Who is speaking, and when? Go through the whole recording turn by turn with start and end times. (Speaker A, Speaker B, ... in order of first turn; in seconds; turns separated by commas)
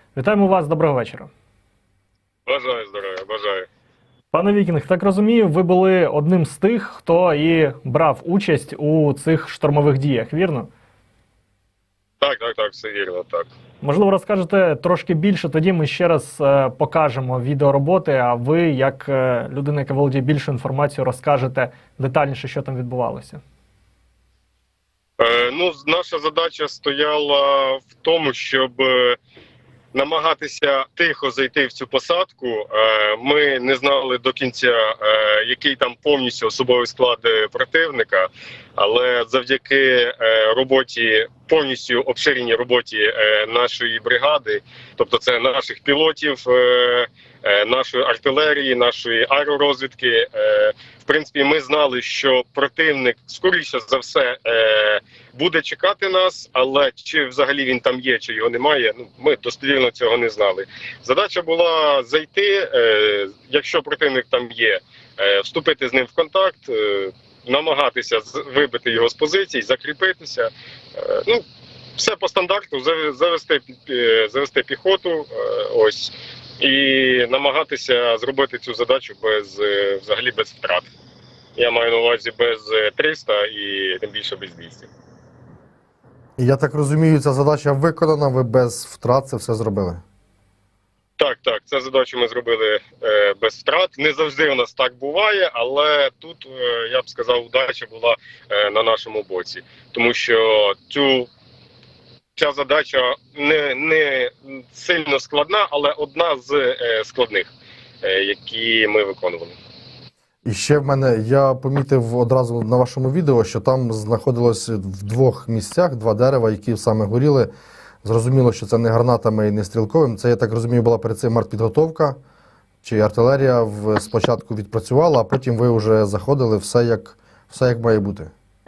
Speaker A: 0.1-1.3, Speaker B: 2.5-3.7, Speaker A: 4.3-10.7, Speaker B: 12.2-13.5, Speaker A: 13.8-23.4, Speaker B: 25.2-29.2, Speaker B: 29.9-71.4, Speaker B: 72.0-80.9, Speaker B: 81.5-84.9, Speaker C: 86.4-90.0, Speaker B: 91.2-101.3, Speaker B: 102.3-107.5, Speaker B: 108.0-109.5, Speaker C: 110.4-117.5, Speaker C: 118.0-122.2, Speaker C: 122.8-128.3